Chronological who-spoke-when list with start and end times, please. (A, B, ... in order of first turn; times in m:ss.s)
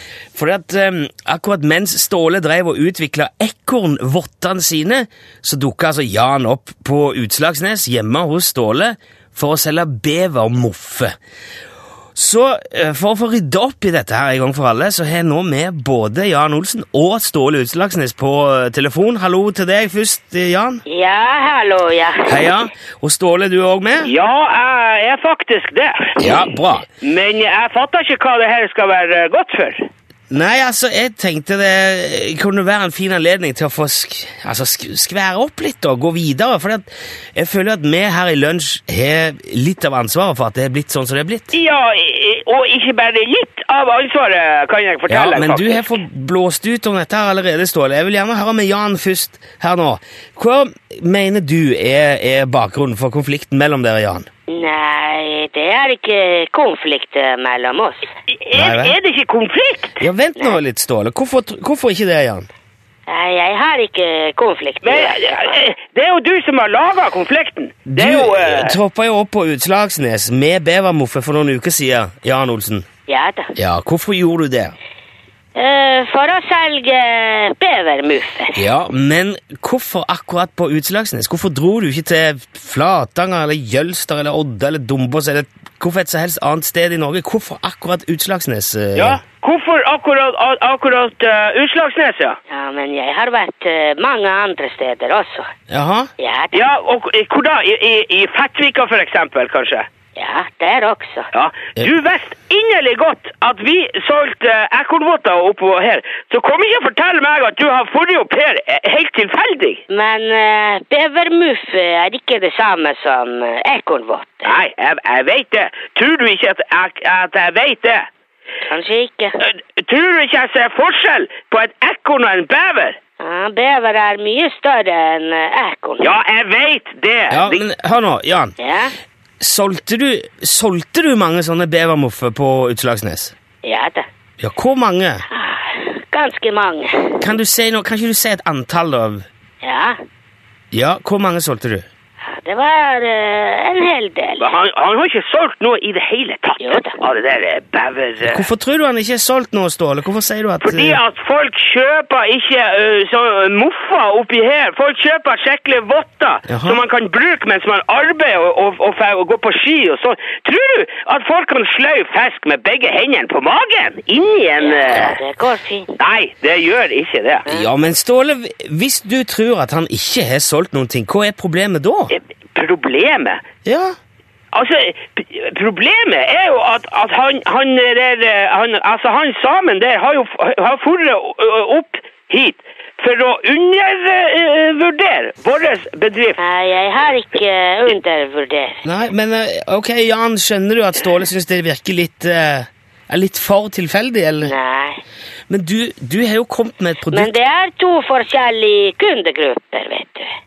0:00.3-0:11.1 A
0:12.2-0:20.8 A
0:20.9-0:22.5 B
0:22.2-0:24.1 A
0:24.0-0:26.4 C
0:26.2-0:26.9 A
0:27.0-0:29.9 C
0:30.3-0:41.5 A
0:41.5-0:45.9 C
0:45.1-0:54.3 A
0:54.5-0:58.1 B
0:58.3-1:00.0 C
0:58.6-0:59.0 A
1:00.0-1:02.5 A
1:03.1-1:05.4 B
1:04.8-1:08.8 C
1:07.9-1:12.9 A
1:13.1-1:13.5 B
1:13.6-1:14.7 A
1:15.6-1:18.6 B
1:18.6-1:29.2 A
1:29.0-1:32.4 C
1:32.5-1:35.5 B
1:35.7-1:36.1 A
1:36.2-1:36.6 B
1:36.5-1:39.9 C
1:40.2-1:41.3 B
1:41.3-1:49.8 C
1:49.9-1:54.6 B
1:54.4-1:58.1 C
1:58.7-1:59.4 B
1:59.4-2:03.0 C
2:03.2-2:06.1 B
2:06.0-2:07.6 C
2:07.3-2:08.5 A
2:08.6-2:08.9 B
2:09.4-2:13.3 A
2:13.6-2:14.1 B
2:14.4-2:15.2 A
2:15.3-2:17.2 B
2:17.2-2:19.3 A
2:19.6-2:20.0 B
2:20.7-2:21.8 A
2:22.2-2:24.5 B
2:24.4-2:28.5 C
2:26.6-2:27.0 B
2:28.2-2:31.0 A
2:30.6-2:45.2 C
2:36.5-2:36.8 A
2:44.6-2:45.9 B
2:46.0-2:47.5 C
2:47.5-2:52.1 A
2:52.1-2:53.4 C
2:53.6-2:54.0 A
2:54.5-3:06.4 C
3:06.4-3:08.8 B
3:08.8-3:14.6 A
3:14.4-3:15.0 B
3:15.5-3:17.3 A
3:17.1-3:20.3 B